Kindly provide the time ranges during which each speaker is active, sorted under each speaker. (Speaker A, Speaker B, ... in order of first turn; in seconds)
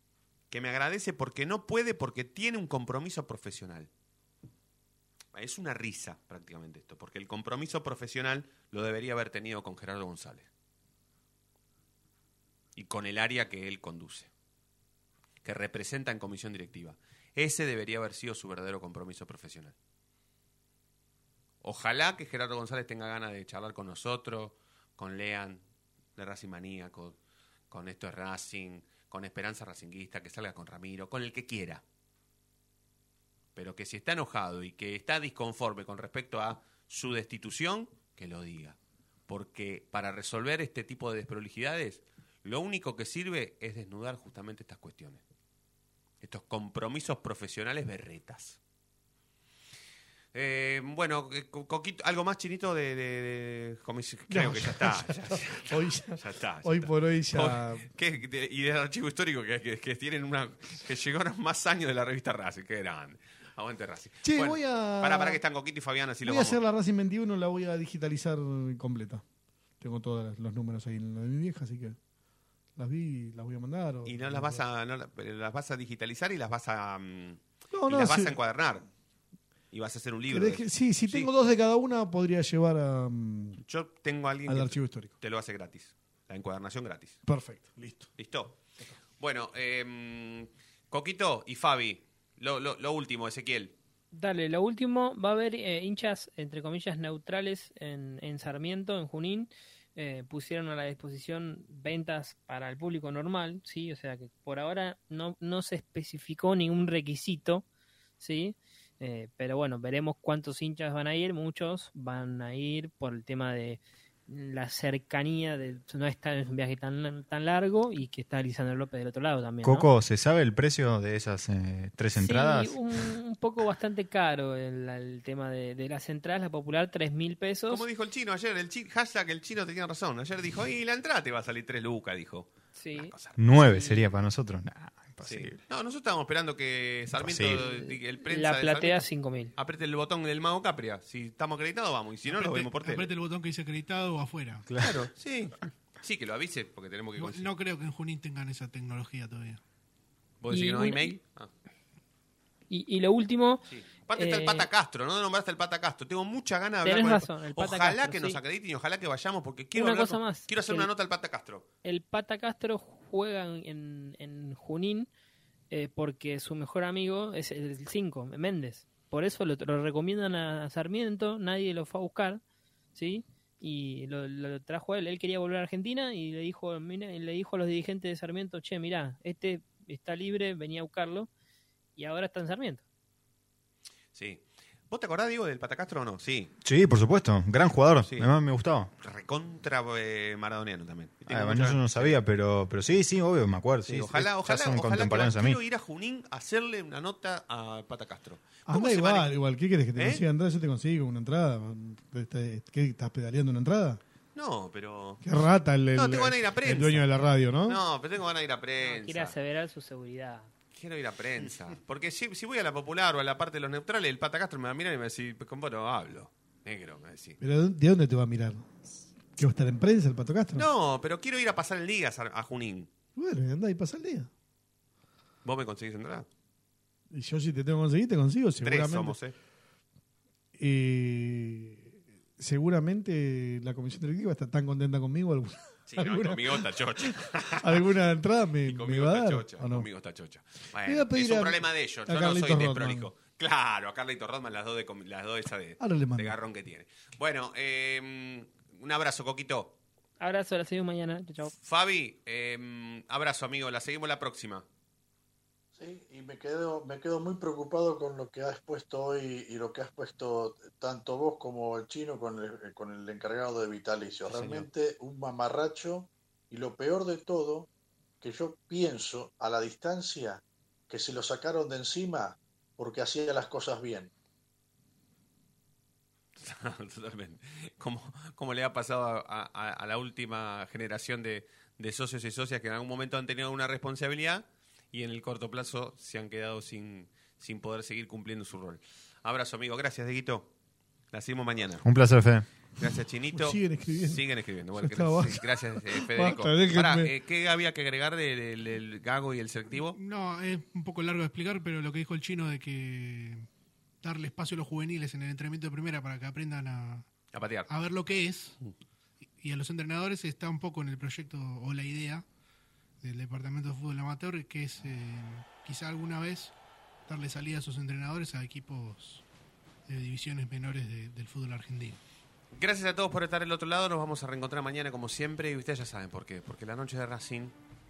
Speaker A: 0.5-3.9, 5.3-10.5, 12.8-14.3, 15.4-19.7, 21.6-25.6, 26.1-27.2, 27.7-31.8, 33.5-38.8, 39.3-45.2, 46.2-48.6, 50.3-66.6, 74.0-78.9, 79.7-81.3, 83.6-87.2, 88.2-88.5, 89.2-93.7, 127.7-133.3, 135.2-143.1, 144.8-147.5, 150.4-151.5, 153.7-161.6, 184.1-186.5, 189.0-192.1, 193.8-199.3, 199.9-200.2, 204.3-205.2, 205.9-207.1, 207.6-209.3, 210.7-217.4, 220.5-222.9, 225.4-226.3, 228.6-229.3, 235.9-237.9, 238.7-249.7, 251.6-254.6, 276.4-290.5, 291.1-291.8, 292.8-300.0, 307.3-307.7, 322.5-327.5
Speaker B: 54.3-57.9, 64.2-65.4, 66.2-69.2, 69.8-72.0, 72.8-74.6, 77.7-78.3, 80.3-83.6, 84.5-85.1, 87.3-88.1, 198.7-204.0, 205.2-207.8, 217.4-218.7, 219.3-220.7, 223.2-224.3, 227.1-229.2, 230.6-239.9, 240.8-243.1, 245.8-246.3, 293.3-294.2, 294.7-297.1
Speaker C: 94.1-107.6, 108.2-119.9, 122.2-127.8, 132.8-133.9, 137.6-139.5, 150.5-151.2, 152.7-153.6, 154.2-154.7, 156.8-158.4, 159.7-160.9, 161.8-165.1, 165.7-172.4, 172.9-181.3, 181.9-182.8, 208.8-210.5, 250.2-251.5
Speaker D: 119.6-123.2, 133.4-135.6, 137.1-137.6, 144.7-145.0, 186.6-188.9, 191.3-195.6, 264.3-264.6, 291.8-292.4
Speaker E: 142.2-144.7, 147.2-149.6, 299.9-303.5, 304.0-307.1, 307.7-308.6, 309.4-312.2, 313.0-316.5, 317.1-319.2, 319.9-322.0
Speaker F: 255.8-267.7, 268.2-274.1